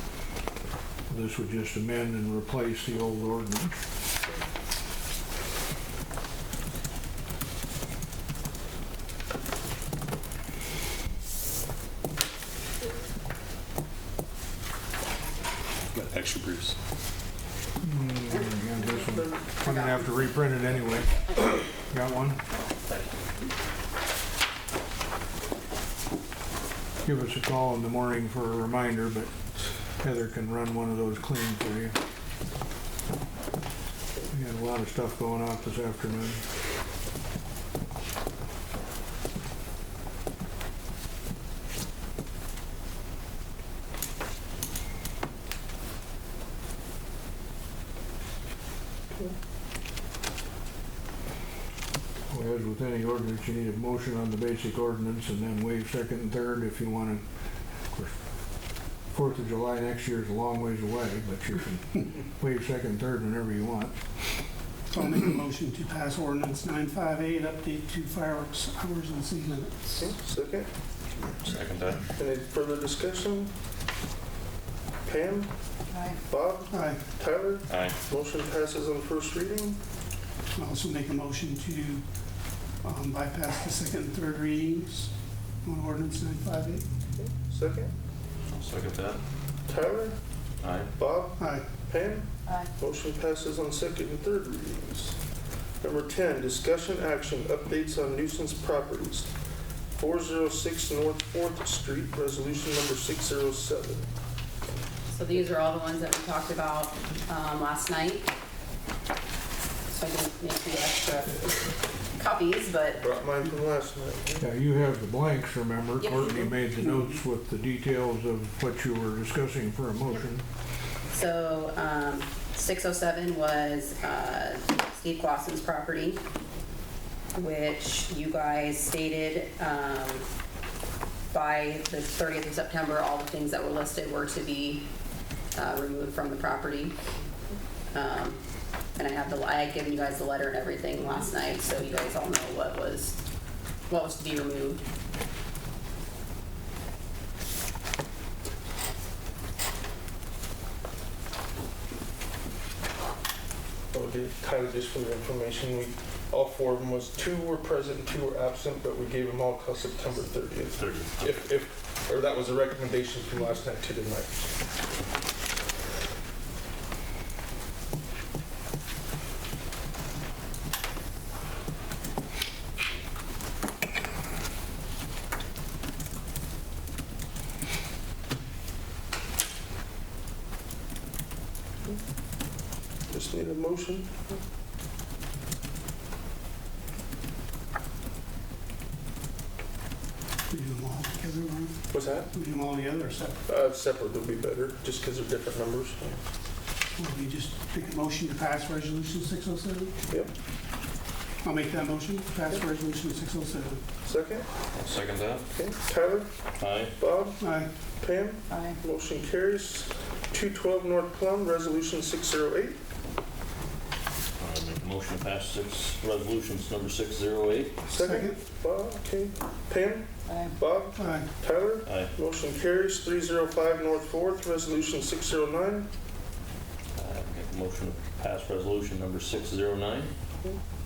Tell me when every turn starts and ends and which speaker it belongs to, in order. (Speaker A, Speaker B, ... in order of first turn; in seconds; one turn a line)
Speaker A: 1.1-3.8
Speaker B: 15.9-16.8
Speaker A: 17.8-22.4
Speaker C: 19.6-20.1
Speaker A: 27.1-29.3
Speaker A: 30.0-32.0
Speaker A: 34.3-36.4
Speaker A: 52.3-57.2
Speaker A: 57.9-58.2
Speaker A: 59.1-64.0
Speaker D: 64.9-70.0
Speaker E: 70.0-70.7
Speaker B: 71.4-72.1
Speaker E: 72.2-73.5
Speaker E: 75.0-75.5
Speaker C: 75.9-76.2
Speaker E: 76.2-79.8
Speaker D: 76.7-77.0
Speaker B: 77.7-78.0
Speaker D: 80.6-82.0
Speaker D: 82.8-85.1
Speaker D: 85.7-86.8
Speaker E: 87.2-87.9
Speaker B: 88.5-89.2
Speaker E: 89.7-90.2
Speaker B: 90.6-90.9
Speaker E: 91.0-95.2
Speaker D: 91.4-91.7
Speaker C: 92.5-92.7
Speaker E: 95.8-99.3
Speaker E: 100.0-104.0
Speaker C: 105.1-108.3
Speaker C: 109.9-113.0
Speaker E: 113.0-114.5
Speaker A: 114.4-120.4
Speaker C: 116.0-116.5
Speaker C: 121.1-126.2
Speaker C: 127.3-130.3
Speaker C: 131.3-134.9
Speaker C: 135.5-137.0
Speaker C: 137.9-138.4
Speaker C: 139.0-143.2
Speaker C: 143.9-144.8
Speaker E: 153.9-164.5
Speaker B: 160.8-161.3
Speaker E: 183.1-184.4
Speaker D: 190.5-191.8
Speaker E: 191.9-192.3
Speaker D: 192.3-193.4
Speaker E: 193.5-196.2
Speaker D: 197.0-199.9
Speaker D: 201.4-203.8
Speaker E: 204.0-204.5
Speaker B: 204.7-205.4
Speaker E: 205.5-206.3
Speaker B: 206.6-206.9
Speaker E: 207.0-207.4
Speaker D: 207.4-207.7
Speaker E: 208.0-212.8
Speaker C: 208.5-208.8
Speaker B: 214.4-217.9
Speaker E: 217.9-225.9
Speaker D: 218.0-218.4
Speaker C: 220.3-220.6
Speaker D: 221.0-221.3
Speaker B: 221.8-222.1
Speaker B: 227.0-230.1